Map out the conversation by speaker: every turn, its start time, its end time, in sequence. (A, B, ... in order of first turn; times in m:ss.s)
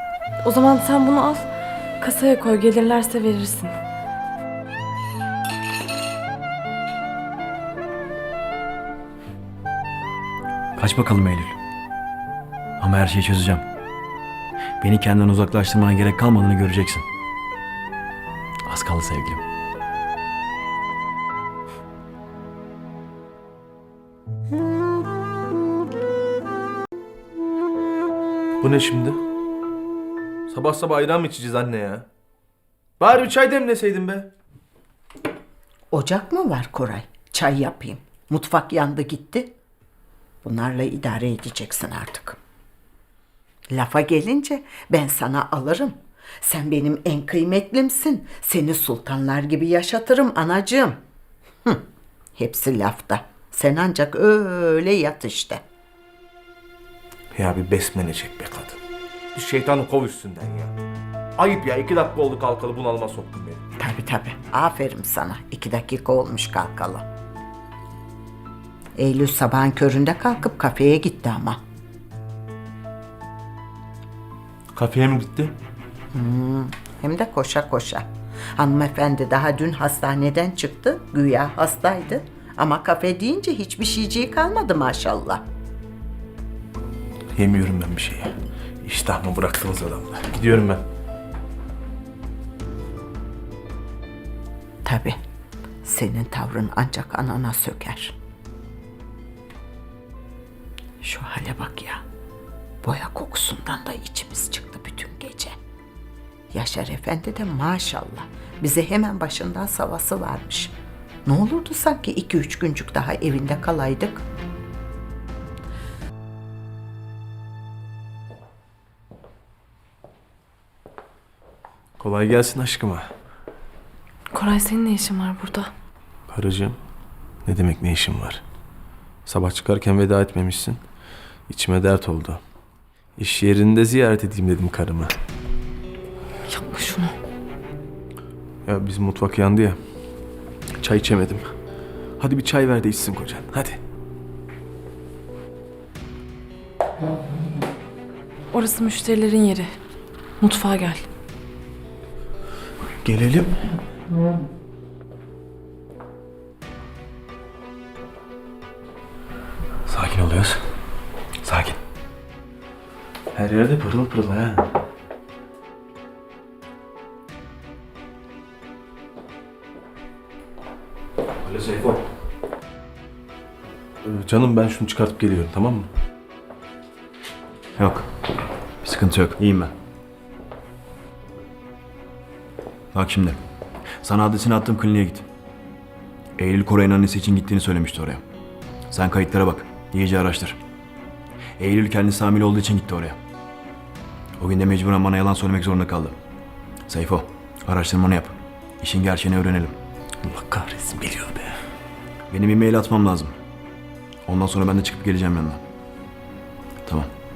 0:00.4-0:01.5 A
0:02.0-0:03.7 A
0:10.8-0:11.6 B
0:12.8-0:13.6 B
0:14.8-0:17.1 B
0:18.7-0:19.4 B
0:28.6-0:29.2 C
0:30.5-0:32.1 C
0:33.0-0:34.3 C
0:35.9-0:39.5 D
0:40.4-0:42.4 D
0:43.7-0:51.0 D
0:52.4-0:55.6 D
0:57.3-0:58.8 C
0:59.3-1:00.7 C
1:01.4-1:03.6 C
1:03.8-1:07.1 D
1:09.0-1:11.6 D
1:14.7-1:15.5 C
1:16.1-1:25.4 D
1:27.4-1:30.8 C
1:34.8-1:35.2 D
1:35.8-1:38.2 D
1:41.0-1:42.0 D
1:42.8-1:45.6 D
1:46.5-1:54.2 D
2:02.0-2:03.1 C
2:04.3-2:05.7 A
2:06.3-2:06.8 C
2:07.4-2:08.4 C
2:09.3-2:10.8 C
2:11.5-2:12.4 C
2:13.2-2:15.2 C
2:16.5-2:17.2 A
2:18.7-2:19.8 C
2:20.8-2:21.5 C
2:22.2-2:23.8 C
2:28.5-2:29.7 A
2:30.4-2:31.1 A
2:33.0-2:33.5 B
2:39.9-2:40.6 B
2:41.4-2:41.8 B
2:43.3-2:44.7 C
2:51.4-2:52.0 B
2:54.0-2:55.9 C
2:57.8-2:58.1 B
2:58.8-2:59.7 B
3:02.9-3:03.4 B
3:04.0-3:05.2 B
3:06.4-3:08.2 B
3:08.9-3:10.6 B
3:11.6-3:13.2 B
3:14.4-3:16.2 B
3:16.9-3:19.8 B
3:20.2-3:21.6 C
3:22.3-3:23.4 B
3:24.3-3:25.6 B